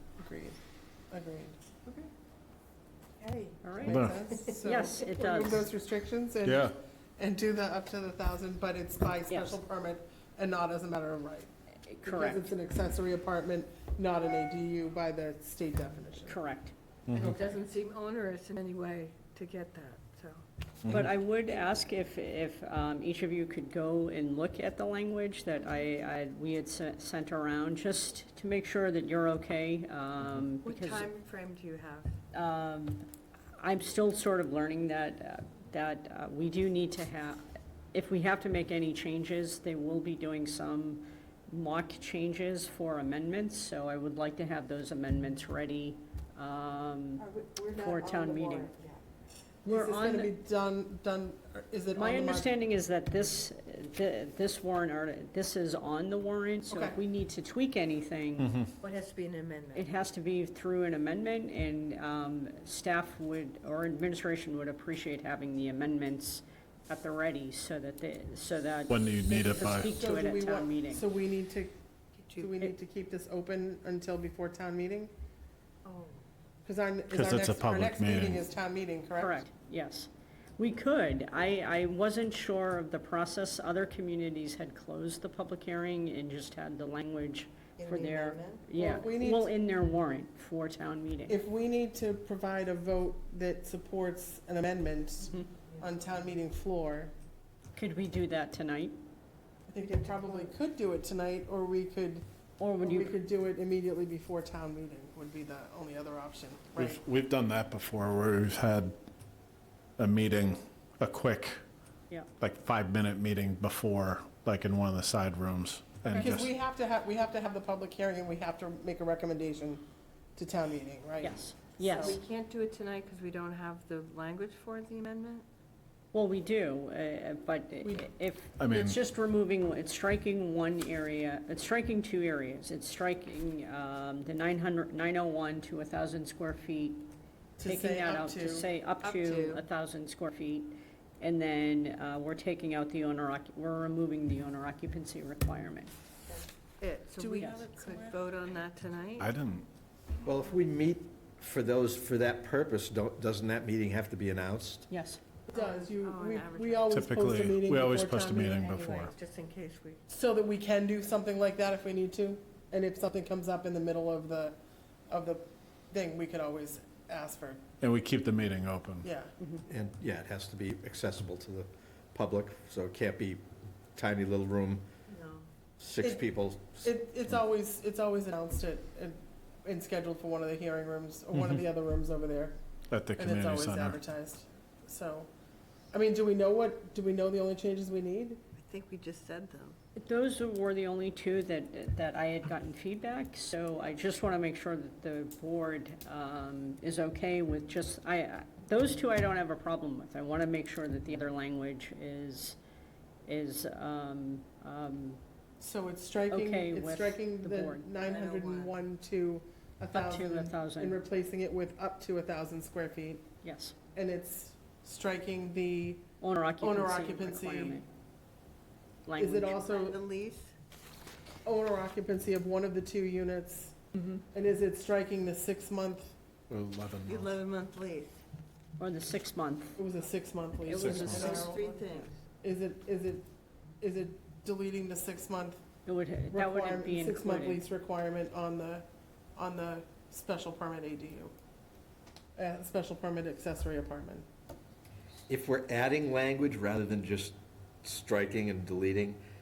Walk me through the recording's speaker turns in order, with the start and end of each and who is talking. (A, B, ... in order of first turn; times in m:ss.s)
0:00.2-0:00.6 A
0:01.1-0:01.6 A
0:03.2-0:03.7 B
0:03.6-0:05.7 C
0:03.8-0:11.5 A
0:03.9-0:04.1 D
0:04.3-0:04.6 B
0:06.4-0:06.7 D
0:09.3-0:09.6 C
0:11.9-0:12.5 C
0:12.0-0:16.4 A
0:16.2-0:16.7 C
0:17.1-0:17.4 D
0:17.1-0:20.4 B
0:20.8-0:31.1 C
0:30.6-0:32.2 B
0:32.3-0:33.1 C
0:33.6-0:48.7 C
0:47.2-0:49.0 B
0:49.6-0:52.5 A
0:49.7-0:50.3 C
0:51.9-0:58.5 C
0:56.7-0:57.0 A
0:58.8-0:59.9 B
0:59.7-1:11.1 C
1:08.9-1:09.9 D
1:09.3-1:11.8 A
1:12.2-1:12.6 B
1:12.4-1:15.1 A
1:15.8-1:16.2 B
1:16.6-1:19.4 A
1:17.1-1:18.4 D
1:19.2-1:31.4 C
1:27.8-1:28.7 B
1:28.7-1:29.5 A
1:31.3-1:37.1 A
1:37.8-1:39.0 C
1:39.7-1:42.2 A
1:39.8-1:40.6 B
1:42.6-1:43.2 C
1:42.8-1:47.0 A
1:46.8-1:49.0 D
1:50.0-1:51.6 D
1:52.4-1:56.5 D
1:56.1-1:59.8 A
2:00.4-2:02.2 A
2:01.2-2:02.2 C
2:02.0-2:05.4 B
2:06.1-2:17.1 C
2:07.8-2:08.1 A
2:08.6-2:08.9 D
2:17.6-2:18.7 A
2:17.6-2:25.9 C
2:19.0-2:19.6 B
2:26.3-2:29.3 B
2:27.2-2:28.6 A
2:29.2-2:29.6 D
2:30.2-2:34.9 E
2:34.9-2:35.2 C
2:35.5-2:38.6 A
2:35.5-2:37.1 B
2:36.9-2:39.1 D
2:38.4-2:40.0 B
2:40.1-2:44.6 A
2:45.1-2:47.6 A
2:47.8-2:49.1 D
2:49.0-2:49.3 A
2:49.6-2:54.9 E
2:55.1-2:55.5 B
2:55.8-2:56.9 E
2:56.8-3:02.6 A
3:02.9-3:04.0 D
3:03.2-3:05.3 A
3:05.9-3:08.4 A
3:08.6-3:09.8 B
3:10.0-3:22.6 C
3:23.3-3:25.2 C
3:25.6-3:33.3 A
3:26.3-3:27.9 C
3:28.0-3:28.8 B
3:29.9-3:31.0 C
3:33.4-3:33.8 C
3:33.9-3:36.1 A
3:36.2-3:37.9 C
3:36.6-3:37.8 A
3:39.1-3:39.6 C
3:39.2-3:40.0 A
3:39.6-3:40.6 B
3:41.4-3:43.8 A
3:44.3-3:46.1 A
3:46.5-3:47.4 D
3:47.1-3:48.2 B
3:48.8-3:49.8 C
3:49.8-3:51.7 A
3:50.6-3:51.5 C
3:50.8-3:51.2 D
3:51.0-3:52.2 B
3:52.4-3:53.2 A
3:53.8-3:55.6 A
3:55.9-3:57.6 C
3:56.3-4:01.3 A
4:02.4-4:04.2 A
4:05.3-4:09.2 E